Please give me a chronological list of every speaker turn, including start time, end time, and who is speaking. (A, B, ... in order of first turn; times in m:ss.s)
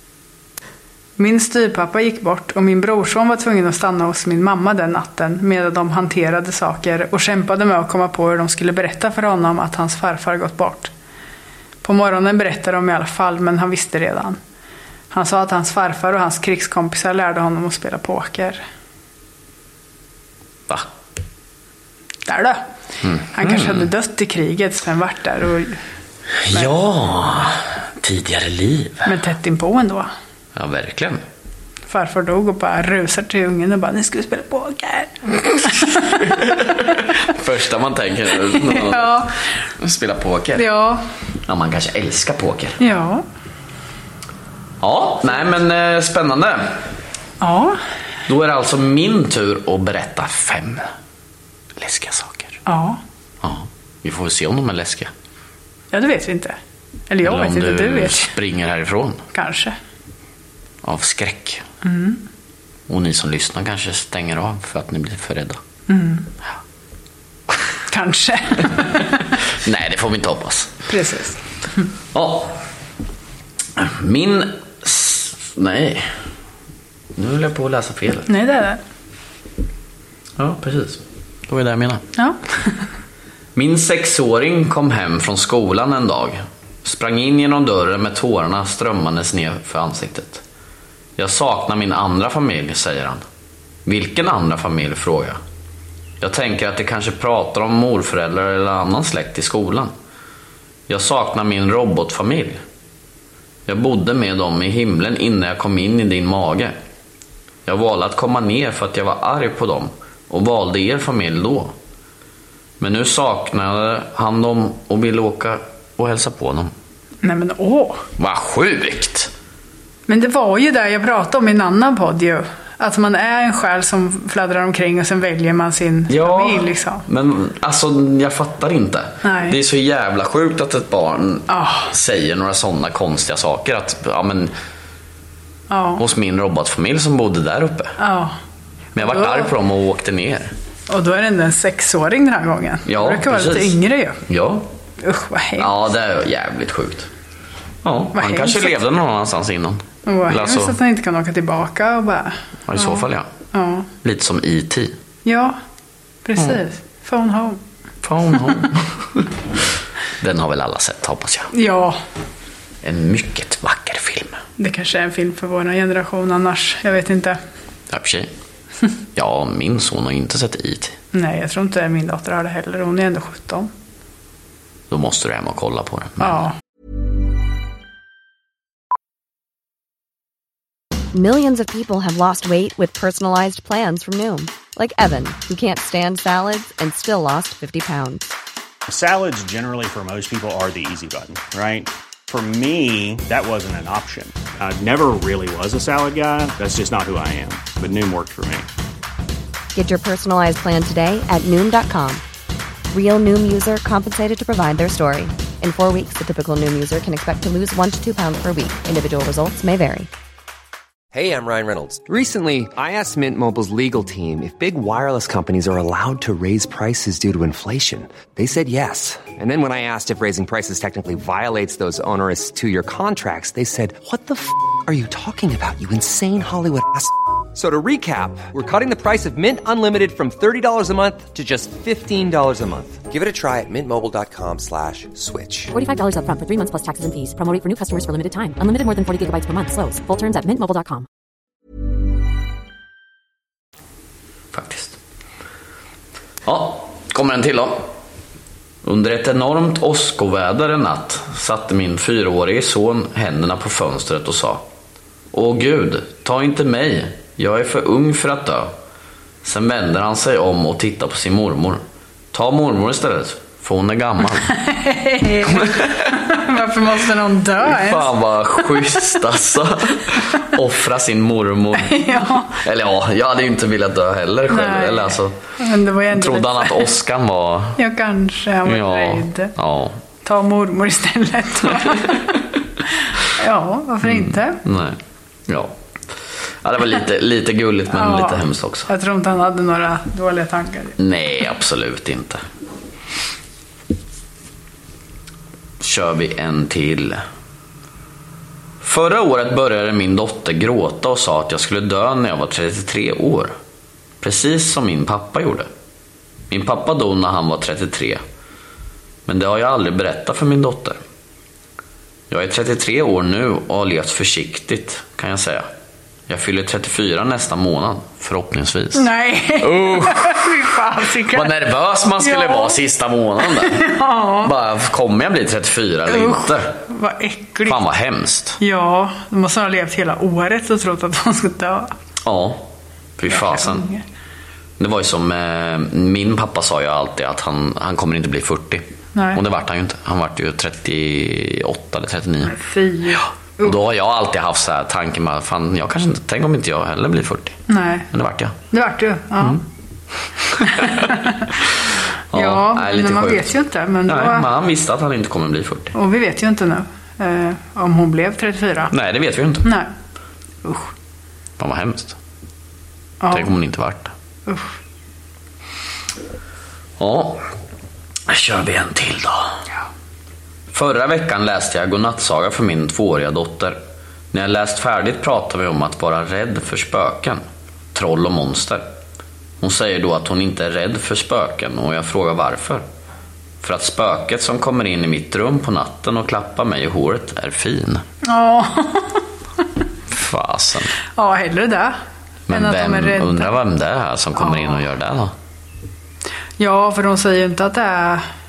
0:01.2-0:10.9 A
0:11.8-0:14.4 A
0:15.1-0:18.6 A
0:22.3-0:22.6 A
0:23.0-0:23.9 B
0:23.3-0:25.8 A
0:26.4-0:29.2 B
0:29.0-0:30.1 A
0:30.6-0:31.2 B
0:31.9-0:36.9 A
0:36.0-0:40.7 B
0:38.5-0:39.5 A
0:40.6-0:41.0 A
0:41.5-0:42.8 B
0:42.8-0:43.2 A
0:44.8-0:46.8 B
0:47.4-0:47.8 A
0:48.3-0:50.9 B
0:51.8-0:52.6 B
0:52.7-0:53.0 A
0:53.4-0:55.1 B
0:55.9-0:56.6 A
0:57.1-0:58.3 A
0:57.2-0:59.2 B
0:59.3-0:59.8 A
1:00.8-1:01.6 B
1:01.8-1:02.2 A
1:02.9-1:05.6 B
1:05.9-1:06.3 A
1:07.9-1:09.3 A
1:09.6-1:10.8 B
1:10.9-1:11.4 A
1:12.1-1:12.6 B
1:13.8-1:16.1 B
1:17.2-1:18.3 B
1:18.3-1:18.8 A
1:20.4-1:22.0 B
1:22.2-1:22.9 A
1:23.6-1:30.4 B
1:31.2-1:33.2 B
1:33.9-1:35.4 B
1:36.2-1:39.9 B
1:40.9-1:42.6 B
1:43.7-1:46.8 B
1:47.7-1:51.8 B
1:52.8-1:56.7 B
1:57.2-1:58.0 A
1:58.2-1:59.3 B
2:00.1-2:07.0 A
2:06.1-2:14.5 B
2:09.2-2:09.6 A
2:11.5-2:11.9 A
2:15.7-2:16.0 A
2:16.0-2:18.0 B
2:18.0-2:18.4 A
2:19.0-2:20.5 B
2:19.0-2:19.5 A
2:20.9-2:24.2 A
2:22.9-2:24.7 B
2:25.0-2:25.7 A
2:25.6-2:27.1 B
2:27.8-2:30.8 B
2:28.1-2:28.8 A
2:30.1-2:33.9 A
2:32.7-2:33.3 B
2:34.0-2:35.0 B
2:35.2-2:35.6 A
2:36.2-2:37.6 A
2:38.0-2:39.3 B
2:40.2-2:41.5 B
2:41.5-2:42.0 A
2:42.8-2:44.4 B
2:44.6-2:47.4 A
2:47.9-2:48.3 B
2:49.2-2:51.0 B
2:51.1-2:53.7 A
2:54.9-2:56.5 B
2:56.2-2:56.5 A
3:01.1-3:08.3 C
3:08.9-3:18.7 D
3:19.7-3:22.2 C
3:22.9-3:30.1 C
3:31.1-3:55.7 E
3:55.7-4:01.1 F
4:04.5-4:05.0 B
4:06.4-4:07.9 B
4:08.8-4:14.6 B
4:15.3-4:18.7 B
4:19.4-4:21.8 B
4:22.3-4:24.6 B
4:24.5-4:29.2 A
4:25.5-4:26.2 B
4:27.6-4:35.4 B
4:31.8-4:32.6 A
4:34.5-4:36.9 A
4:36.1-4:37.8 B
4:37.8-4:39.5 A
4:38.7-4:40.0 B
4:40.2-4:42.3 A
4:41.9-4:42.2 B
4:43.2-4:44.6 A
4:44.0-4:45.7 B
4:46.6-4:48.9 B
4:47.9-4:51.0 A
4:51.0-4:52.4 B
4:55.8-4:57.2 B
4:58.8-5:03.5 B
5:04.2-5:05.7 B
5:06.5-5:08.2 B
5:09.3-5:11.0 B
5:12.3-5:15.7 B
5:16.3-5:20.5 B
5:19.0-5:21.5 A
5:21.3-5:23.9 B
5:22.2-5:22.8 A
5:23.5-5:24.5 A
5:24.4-5:26.8 B
5:26.1-5:27.8 A
5:27.7-5:28.6 B
5:28.6-5:31.9 A
5:32.2-5:33.9 B
5:33.3-5:34.0 A
5:34.8-5:38.8 B
5:39.2-5:39.4 A
5:39.4-5:42.6 B
5:42.5-5:43.8 A
5:43.6-5:47.6 B
5:47.7-5:48.1 A
5:48.1-5:48.6 B
5:48.7-5:49.6 A
5:50.5-5:51.7 B
5:50.6-5:51.5 A
5:52.3-5:53.5 B
5:52.3-5:54.5 A
5:54.1-5:55.9 B
5:55.9-5:58.9 A
5:58.9-5:59.7 B
5:59.6-5:59.9 A
6:00.6-6:00.9 A
6:01.6-6:02.2 B
6:03.2-6:03.5 A
6:03.3-6:04.1 B
6:04.5-6:04.8 A
6:07.0-6:07.4 B
6:08.3-6:09.6 B
6:10.7-6:13.8 B
6:14.3-6:17.4 B
6:17.9-6:18.9 B
6:19.6-6:22.8 B
6:23.6-6:28.0 B
6:28.2-6:29.2 A
6:30.1-6:30.9 B
6:31.1-6:32.0 A
6:32.5-6:35.3 B
6:32.5-6:33.5 A
6:34.4-6:34.8 A
6:36.6-6:38.2 A